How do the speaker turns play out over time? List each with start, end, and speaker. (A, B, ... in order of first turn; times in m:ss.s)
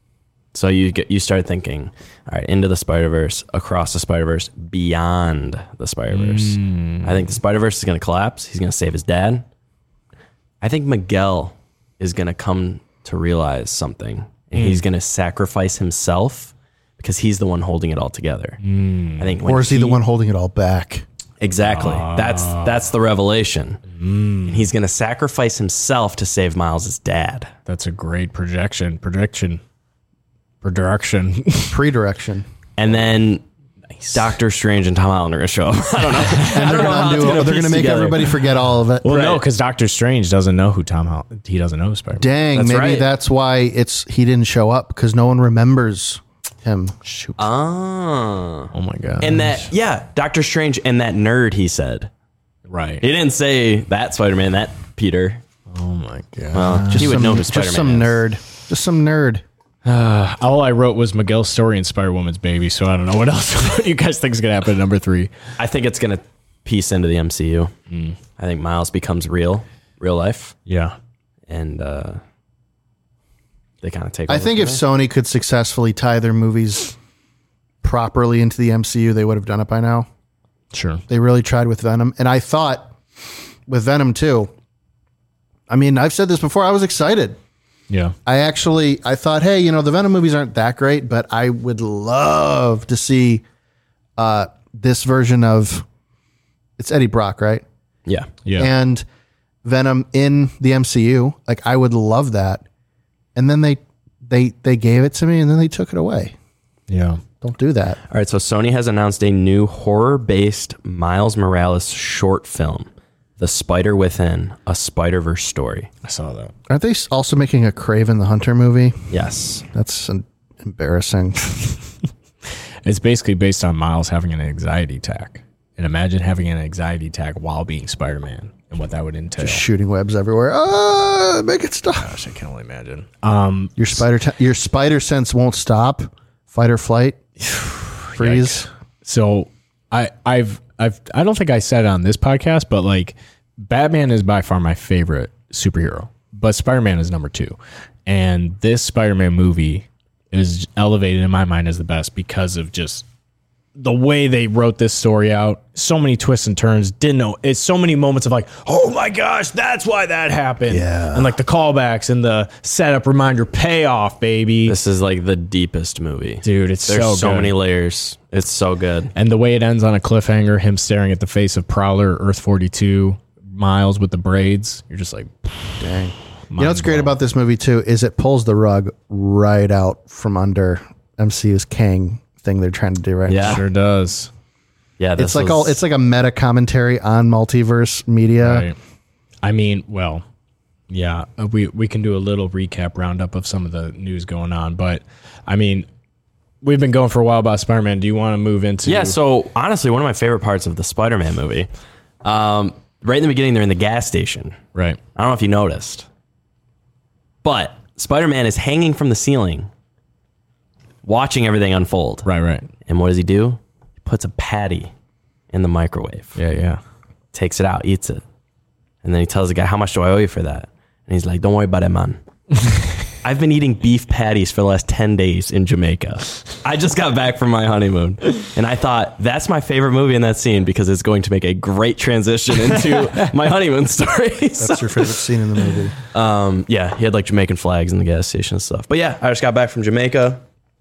0:00.5-0:09.4 A
0:06.1-0:07.3 B
0:10.6-0:18.6 A
0:14.6-0:14.8 B
0:18.6-0:19.3 B
0:19.2-0:20.0 A
0:19.4-0:21.0 C
0:21.4-0:23.8 A
0:21.6-0:22.8 B
0:23.9-0:24.6 B
0:24.5-0:27.5 A
0:27.6-0:29.6 B
0:30.6-0:31.8 B
0:31.7-0:32.5 C
0:32.8-0:33.4 A
0:34.0-0:34.3 B
0:34.1-0:38.3 A
0:36.2-0:36.6 B
0:36.4-0:39.4 C
0:39.0-0:42.3 B
0:42.2-0:47.0 C
0:42.5-0:43.1 A
0:47.0-0:47.4 B
0:47.4-0:52.1 A
0:48.7-0:49.7 B
0:52.7-0:53.0 B
0:53.0-0:55.4 A
0:55.7-0:57.2 B
0:56.5-0:58.2 A
0:56.9-0:59.4 C
0:59.8-1:05.3 B
1:05.6-1:07.7 A
1:07.9-1:08.2 B
1:08.4-1:10.6 A
1:10.6-1:11.0 B
1:11.5-1:12.2 A
1:13.8-1:14.8 A
1:14.3-1:17.0 C
1:17.8-1:20.1 C
1:20.7-1:21.0 B
1:21.1-1:22.9 C
1:23.7-1:24.5 C
1:25.7-1:27.4 C
1:27.9-1:28.1 B
1:28.2-1:33.4 C
1:34.2-1:35.8 C
1:36.8-1:37.6 C
1:38.0-1:38.3 A
1:38.4-1:38.7 B
1:38.6-1:39.0 C
1:39.6-1:42.6 C
1:43.4-1:46.3 C
1:46.9-1:47.2 B
1:47.4-1:48.0 C
1:48.1-1:55.9 A
1:56.0-1:56.5 B
1:56.7-1:59.0 C
1:59.1-1:59.6 A
1:59.7-2:01.8 C
2:02.8-2:09.6 B
2:09.4-2:12.1 C
2:12.0-2:14.0 B
2:13.8-2:17.2 C
2:17.4-2:33.0 B
2:18.1-2:18.7 C
2:33.8-2:44.8 B
2:40.7-2:41.3 C
2:44.7-2:49.1 A
2:46.4-2:47.5 B
2:49.1-2:55.8 B
2:55.8-3:03.6 C
2:56.5-2:57.2 B
3:03.3-3:03.6 A
3:03.4-3:04.3 B
3:05.0-3:05.8 A
3:05.2-3:08.7 C
3:08.4-3:08.8 B
3:09.4-3:10.2 B
3:10.9-3:15.8 B
3:16.6-3:19.2 B
3:18.8-3:21.7 A
3:22.2-3:24.6 A
3:24.7-3:25.0 B
3:25.1-3:26.0 A
3:27.4-3:29.7 A
3:31.0-3:32.2 A
3:32.2-3:32.7 B
3:32.8-3:34.9 A
3:35.5-3:36.4 A
3:36.4-3:36.8 B
3:37.3-3:38.2 A
3:39.0-3:42.2 A
3:43.2-3:55.1 A
3:54.6-3:55.9 C
3:56.1-4:00.4 A